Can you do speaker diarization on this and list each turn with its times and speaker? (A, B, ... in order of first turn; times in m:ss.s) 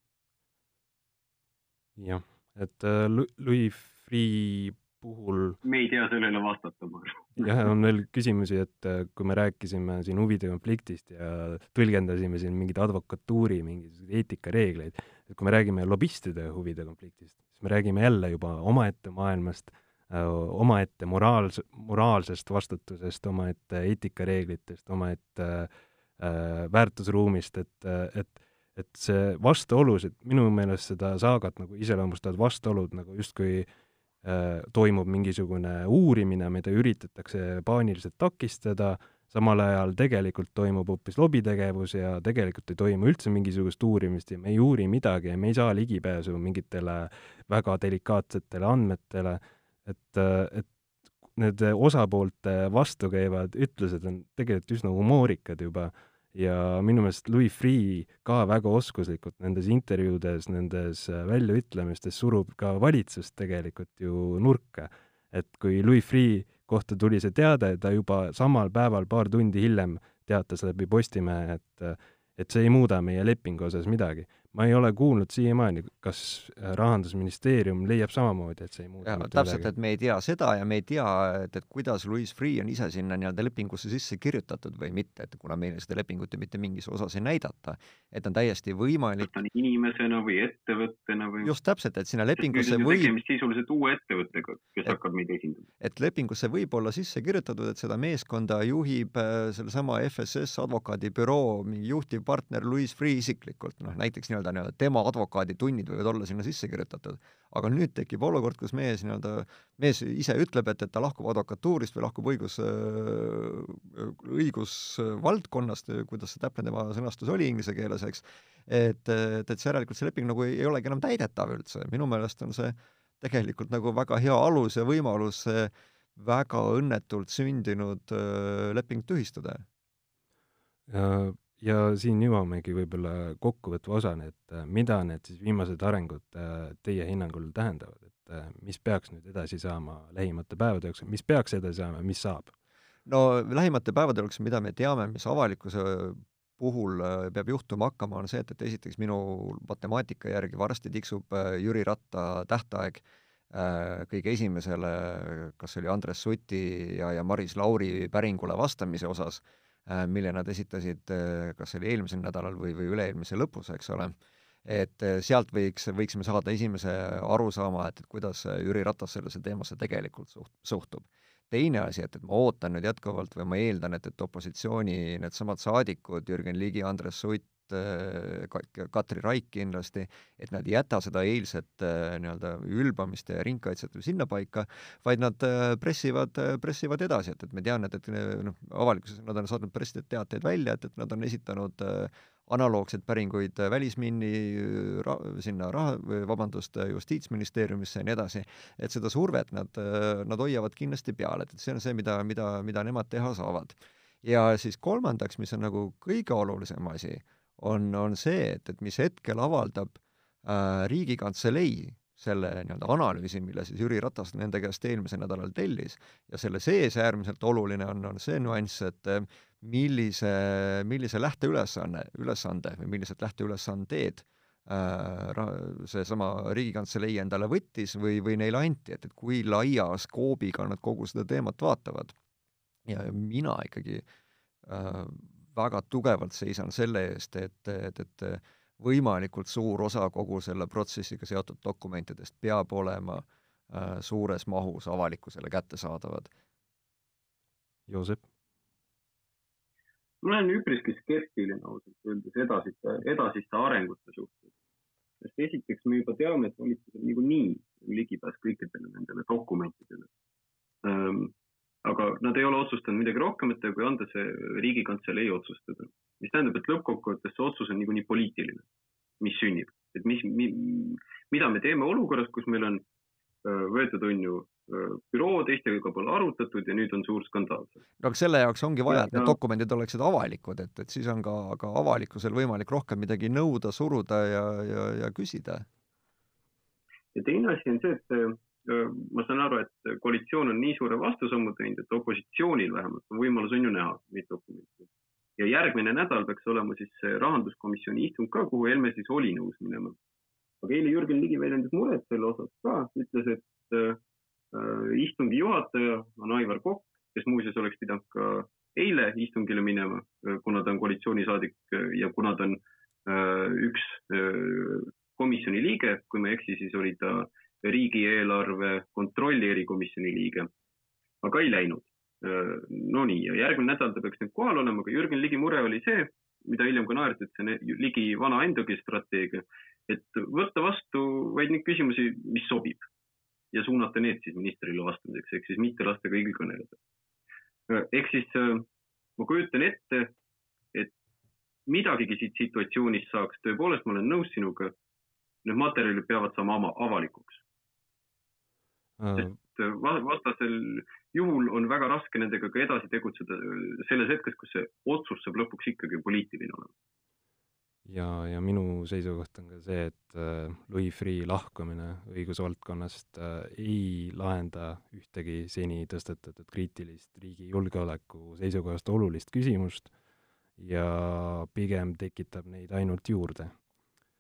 0:02.0-0:05.6 A
0:05.6-0:07.5 B
0:07.4-0:33.7 A
0:34.2-0:50.7 A
0:51.3-1:19.7 A
1:19.0-1:29.3 C
1:29.2-1:31.5 B
1:31.4-1:33.2 C
1:32.4-1:35.7 B
1:35.8-2:09.6 C
2:10.9-2:22.5 A
2:23.1-2:44.1 C
2:44.7-3:52.1 C
3:52.9-3:54.0 C
3:54.7-4:06.3 C
4:07.9-4:08.2 A
4:10.2-4:14.5 B
4:15.2-4:20.1 B
4:20.8-4:21.3 B
4:21.8-4:28.6 B
4:29.2-4:32.8 B
4:33.4-4:37.8 B
4:38.0-4:45.7 C
4:38.9-4:39.4 B
4:47.1-5:00.0 B
5:00.6-5:04.0 B
5:04.5-5:20.5 B
5:21.2-5:32.9 B
5:33.5-5:36.8 B
5:37.7-5:38.7 B
5:39.2-5:40.1 B
5:41.7-5:44.8 B
5:45.4-5:47.4 B
5:49.0-5:49.3 A
5:49.2-5:56.7 B
5:57.9-6:09.9 A
6:10.6-6:13.6 A